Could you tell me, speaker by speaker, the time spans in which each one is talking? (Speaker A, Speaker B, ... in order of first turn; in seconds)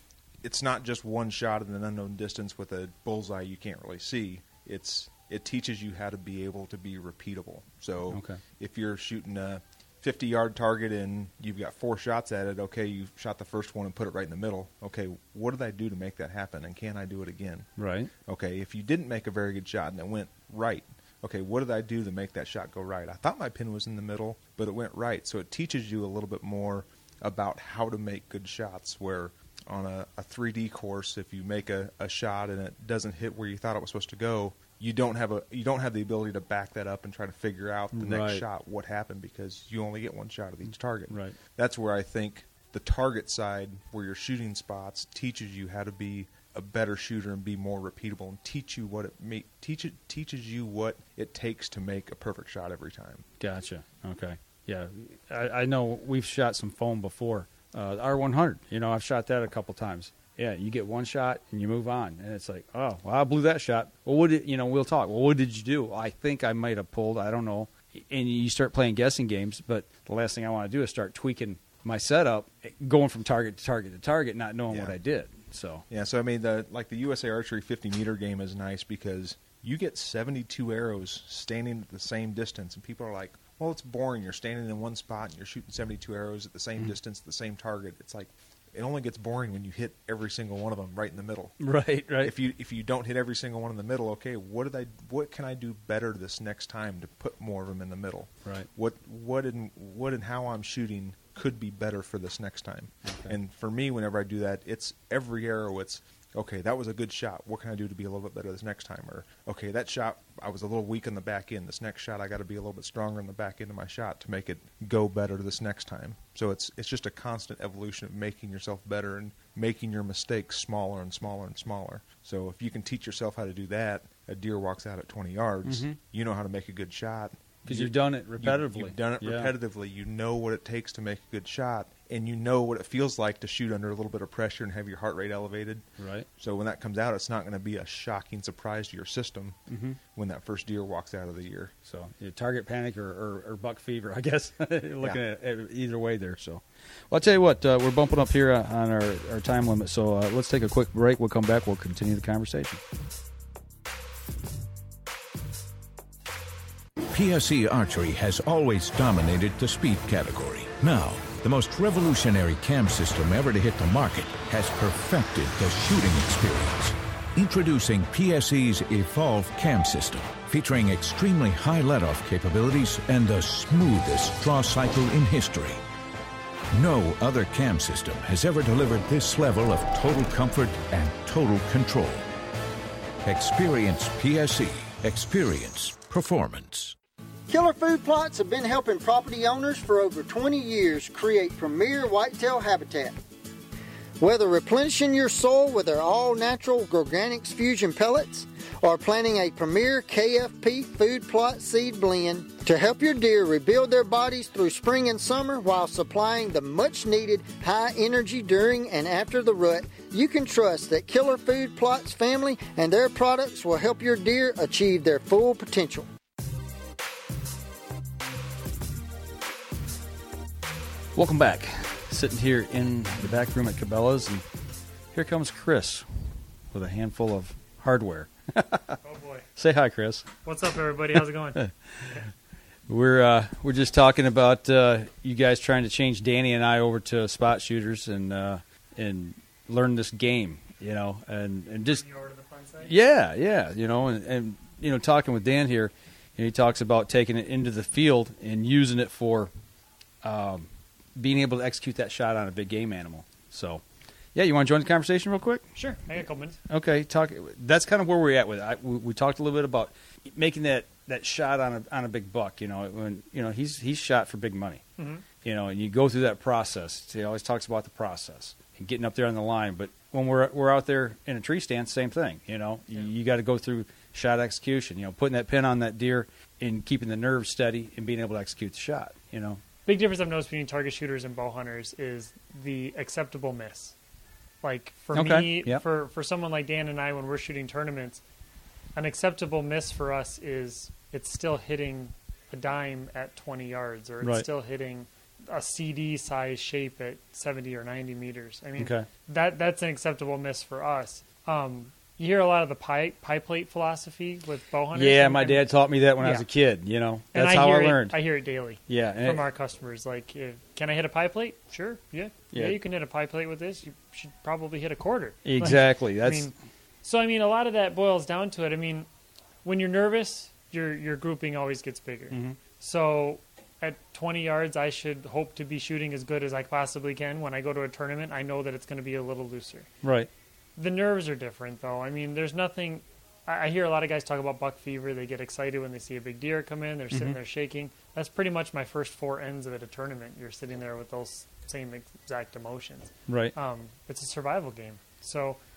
Speaker A: 0.4-17.7, 18.3-53.3, 74.7-75.0, 75.9-91.6, 92.2-135.8, 136.4-139.6, 140.1-141.7
Speaker B: 8.1-8.4, 17.8-18.1, 37.9-38.5, 41.1-41.4, 53.4-75.8, 91.6-92.3, 103.0-103.4, 125.7-126.0, 127.7-129.5, 136.0-136.3, 139.7-140.0, 141.9-152.8, 221.2-224.4, 225.1-229.0, 229.6-230.3, 231.6-232.2, 232.9-242.0, 242.8-249.5, 250.2-253.8, 254.3-255.7, 256.7-264.8, 265.4-279.6, 285.1-285.8, 298.8-299.1, 304.9-308.2, 308.9-309.4, 312.5-312.8, 315.4-316.5, 322.3-322.6, 330.0-330.3, 337.1-337.4, 343.3-343.6
Speaker C: 157.1-175.8, 176.7-182.3, 183.2-186.9
Speaker D: 187.5-193.2, 194.2-216.1
Speaker E: 229.0-229.5, 230.4-232.3, 241.9-242.9, 255.8-256.6, 265.0-265.2, 279.9-283.9, 284.6-288.2, 288.9-306.5, 307.3-316.5, 317.0-319.1, 319.6-329.9, 330.8-345.6